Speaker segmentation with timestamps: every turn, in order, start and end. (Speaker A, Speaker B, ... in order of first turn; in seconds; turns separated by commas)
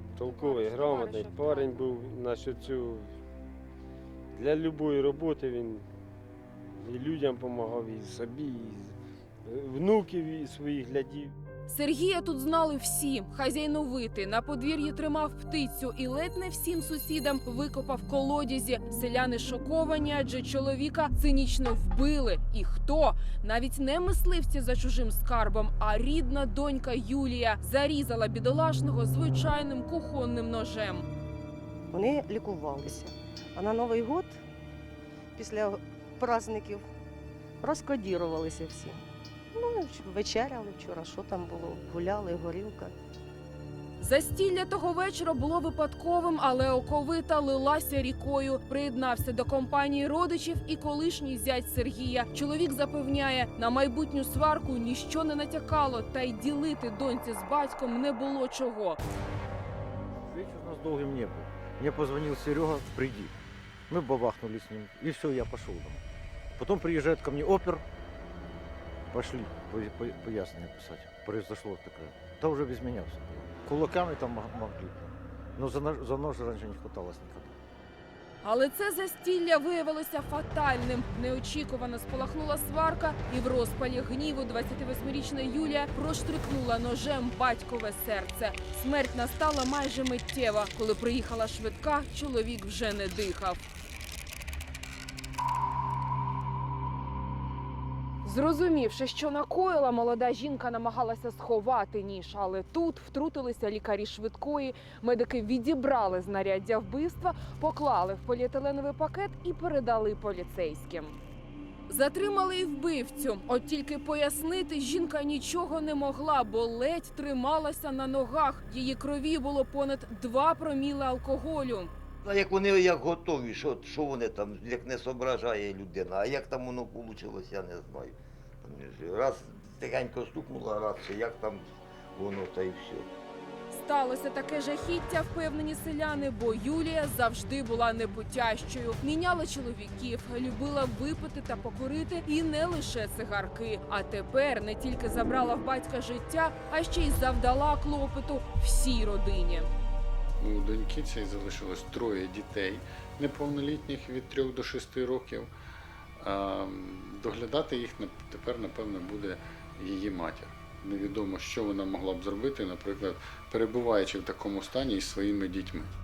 Speaker A: 0.1-3.1, Speaker B: 0.2-1.9, Speaker A: 4.3-5.8, Speaker A: 6.8-11.3, Speaker B: 11.7-31.1, Speaker C: 31.9-34.4, Speaker C: 35.4-36.9, Speaker C: 37.6-39.0, Speaker C: 39.5-42.9, Speaker B: 44.0-59.0, Speaker D: 60.2-63.4, Speaker D: 63.9-66.0, Speaker D: 66.5-67.8, Speaker D: 69.1-77.5, Speaker B: 78.4-93.6, Speaker B: 98.2-111.1, Speaker B: 111.9-121.9, Speaker E: 122.2-133.1, Speaker B: 133.7-149.7, Speaker F: 150.4-155.5, Speaker F: 156.2-165.9